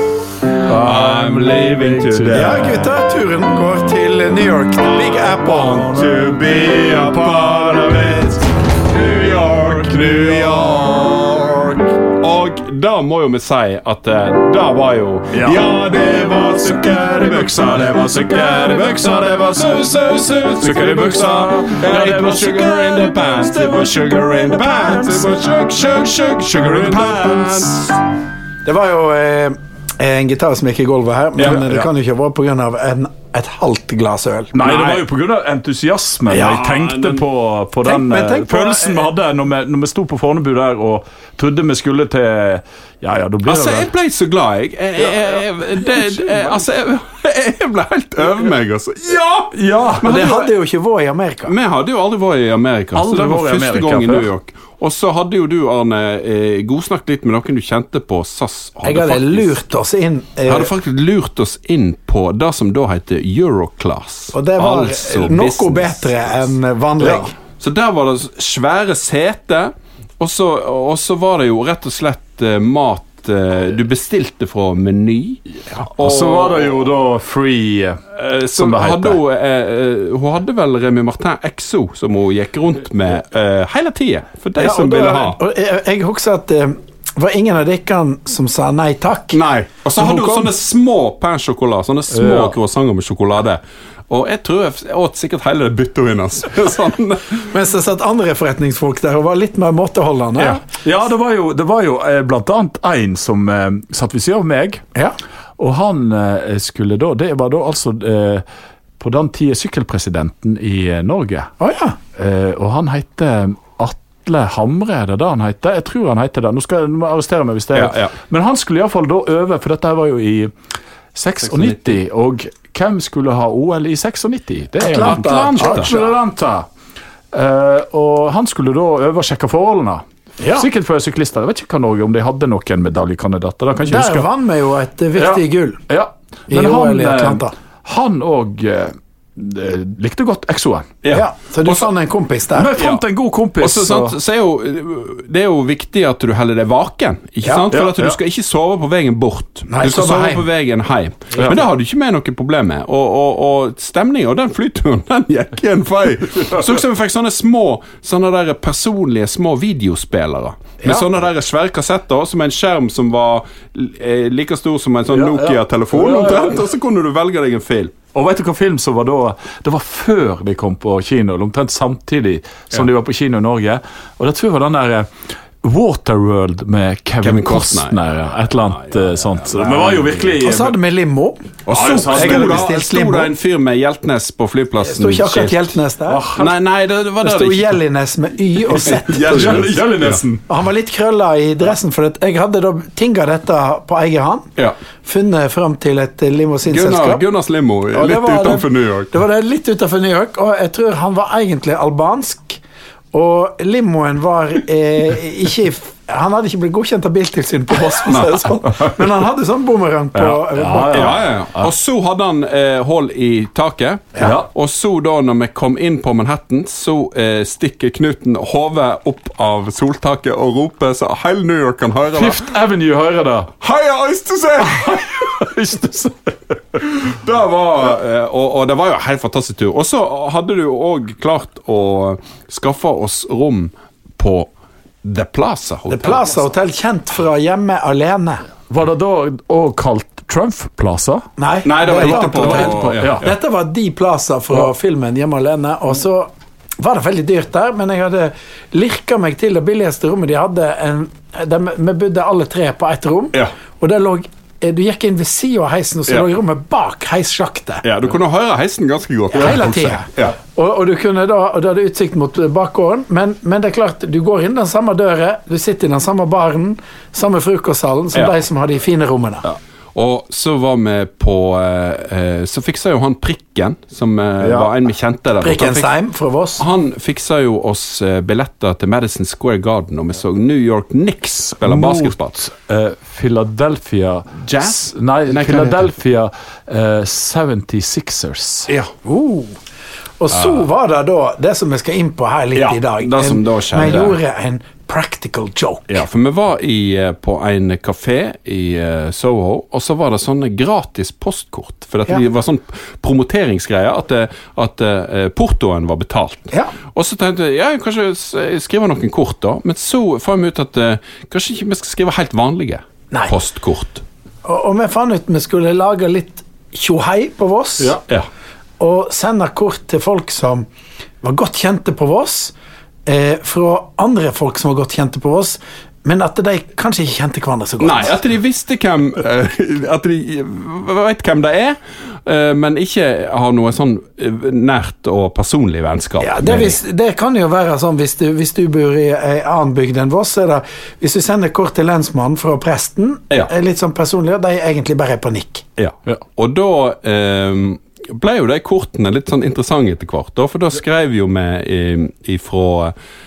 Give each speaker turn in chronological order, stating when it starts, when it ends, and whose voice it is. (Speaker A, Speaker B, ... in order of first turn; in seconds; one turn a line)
Speaker A: 0.7-2.9
Speaker B: 0.7-2.8
Speaker C: 2.3-5.8
Speaker B: 4.8-27.9
Speaker A: 5.5-6.9
Speaker A: 10.1-10.6
Speaker A: 15.3-15.7
Speaker A: 17.0-19.0
Speaker A: 20.6-25.4
Speaker A: 26.6-27.4
Speaker C: 28.6-34.7
Speaker A: 31.5-31.9
Speaker A: 34.5-43.9
Speaker B: 34.6-35.1
Speaker C: 36.3-36.6
Speaker B: 36.4-37.2
Speaker C: 37.8-39.1
Speaker B: 43.5-50.5
Speaker A: 49.5-50.1
Speaker C: 50.0-51.5
Speaker B: 51.5-59.6
Speaker A: 53.0-54.3
Speaker C: 58.8-60.7
Speaker B: 60.5-66.1
Speaker C: 64.3-67.3
Speaker A: 67.0-67.3
Speaker B: 67.6-76.9
Speaker A: 75.7-78.0
Speaker B: 78.2-85.4
Speaker A: 78.5-79.2
Speaker C: 84.6-89.4
Speaker B: 89.3-97.5
Speaker C: 90.0-90.5
Speaker A: 92.1-92.6
Speaker C: 97.5-100.6
Speaker A: 100.4-104.8
Speaker A: 105.6-108.4
Speaker A: 109.0-111.5
Speaker C: 111.6-112.0
Speaker A: 112.2-120.5
Speaker B: 117.7-118.2
Speaker A: 121.1-126.7
Speaker B: 121.4-122.0
Speaker C: 124.8-126.2
Speaker B: 125.0-125.9
Speaker A: 127.3-134.2
Speaker C: 130.4-130.7
Speaker C: 133.8-135.8
Speaker A: 135.2-141.0
Speaker C: 136.5-137.5
Speaker B: 141.0-141.9
Speaker C: 141.1-142.8
Speaker A: 142.6-144.2
Speaker B: 142.8-143.0
Speaker B: 143.6-167.9
Speaker C: 147.4-147.7
Speaker A: 147.7-148.2
Speaker C: 149.7-150.5
Speaker A: 151.4-151.7
Speaker A: 165.1-166.6
Speaker A: 168.1-175.1
Speaker A: 175.6-180.8
Speaker B: 177.2-178.0
Speaker B: 178.7-180.4
Speaker C: 180.4-183.3
Speaker B: 181.7-185.6
Speaker A: 181.7-182.7
Speaker C: 184.8-186.3
Speaker A: 186.1-186.5
Speaker B: 186.3-187.8
Speaker C: 187.2-189.8
Speaker B: 188.7-190.2
Speaker A: 189.0-190.4
Speaker C: 190.5-194.5
Speaker C: 195.0-197.2
Speaker B: 196.7-199.1
Speaker C: 197.9-202.6
Speaker C: 203.1-211.2
Speaker B: 208.1-208.4
Speaker A: 210.2-211.7
Speaker B: 210.9-222.4
Speaker A: 214.2-214.5
Speaker A: 222.1-223.5
Speaker B: 223.6-225.3
Speaker A: 224.6-226.6
Speaker B: 227.1-234.5
Speaker B: 235.0-236.3
Speaker C: 235.9-238.4
Speaker A: 238.7-241.2
Speaker C: 241.4-257.9
Speaker B: 241.7-243.3
Speaker A: 241.9-243.3
Speaker B: 257.8-260.4
Speaker C: 259.3-269.4
Speaker B: 269.9-275.9
Speaker A: 274.4-274.7
Speaker C: 275.4-276.6
Speaker B: 276.6-282.4
Speaker A: 281.6-288.7
Speaker B: 284.4-285.9
Speaker C: 289.0-289.6
Speaker C: 290.2-296.0
Speaker B: 292.6-294.2
Speaker B: 295.9-314.0
Speaker C: 314.4-318.0
Speaker C: 318.8-320.7
Speaker C: 321.2-322.6
Speaker C: 323.1-328.2
Speaker B: 327.8-336.7
Speaker C: 336.2-345.7
Speaker B: 345.8-352.9